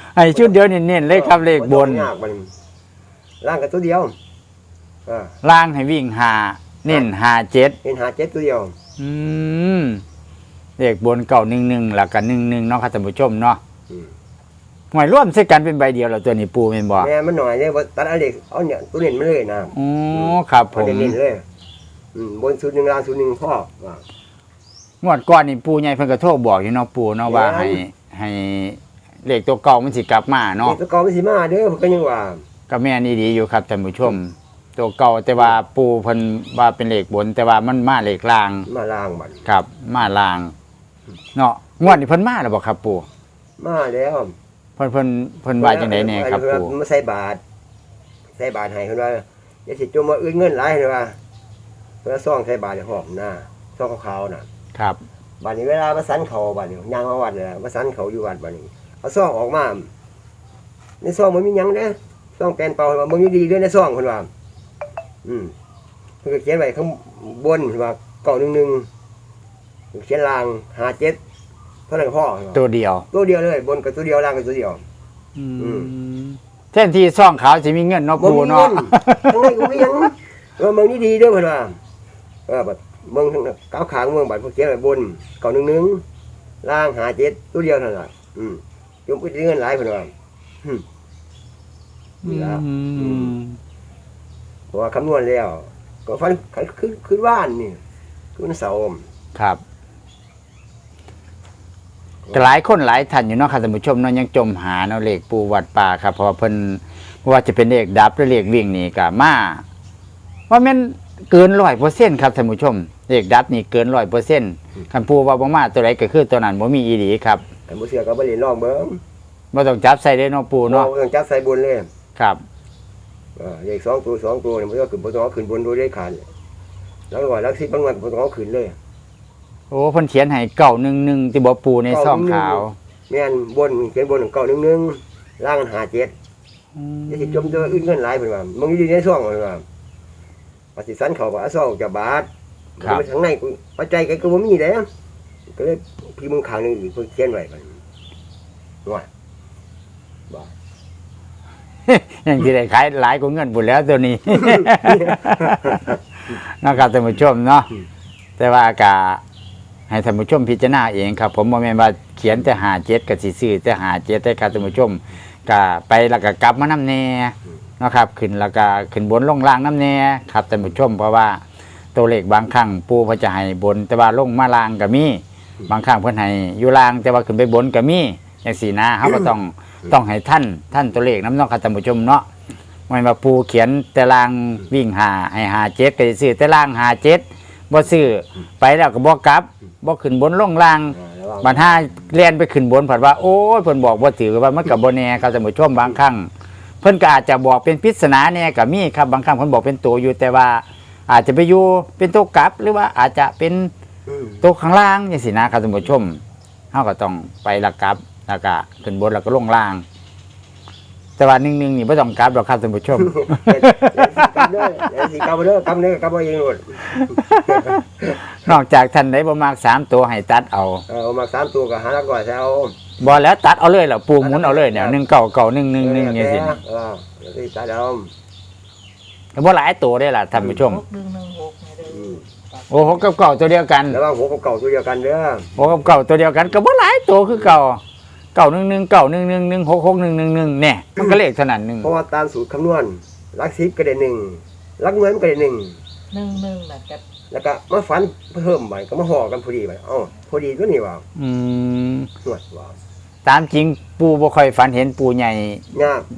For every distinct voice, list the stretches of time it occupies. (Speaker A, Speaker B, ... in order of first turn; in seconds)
Speaker A: 0.1-2.1, 5.4-7.8, 9.0-10.0, 10.8-13.6, 14.9-17.1, 19.7-21.1, 25.0-30.8, 32.7-38.7, 39.5-40.5, 41.3-43.1, 44.8-46.7, 72.5-73.0, 75.3-79.8, 92.2-93.6, 99.3-99.6, 102.3-109.6, 110.5-117.4, 119.5-120.9, 122.2-122.4, 129.7-132.8, 136.8-137.8, 151.8-157.7, 158.4-159.2, 159.9-171.4, 171.9-182.2, 182.9-196.3, 196.8-203.7, 204.4-206.2, 206.7-209.8, 211.2-214.5, 216.9-217.8, 218.4-220.8, 223.0-226.6, 229.3-230.8, 232.7-234.0, 235.6-237.8, 238.3-241.9, 251.2-252.1, 253.2-255.7
Speaker B: 1.1-2.5, 3.4-4.1, 5.0-5.3, 7.8-8.7, 17.0-21.4, 22.1-24.0, 27.2-27.8, 30.6-32.4, 38.6-39.4, 43.6-44.3, 45.6-47.4, 48.4-51.2, 52.0-54.5, 55.4-59.9, 61.0-64.3, 65.2-65.5, 66.2-68.9, 69.9-71.2, 71.9-72.6, 73.1-74.8, 75.6-75.9, 78.2-81.8, 82.5-86.0, 86.6-90.1, 92.2-93.3, 94.7-97.8, 98.3-99.0, 117.7-119.0, 120.7-121.9, 123.4-126.2, 127.1-128.8, 131.9-136.1, 137.1-139.6, 140.8-142.3, 142.8-144.9, 145.5-147.8, 154.5-155.9, 190.9-191.8, 204.1-204.4, 213.1-218.2, 220.9-223.0, 224.2-225.0, 225.8-228.1, 231.8-232.2, 233.9-235.7, 241.8-245.8, 247.3-251.0, 252.2-252.8, 255.7-256.1
Speaker C: 230.6-232.6, 246.1-247.0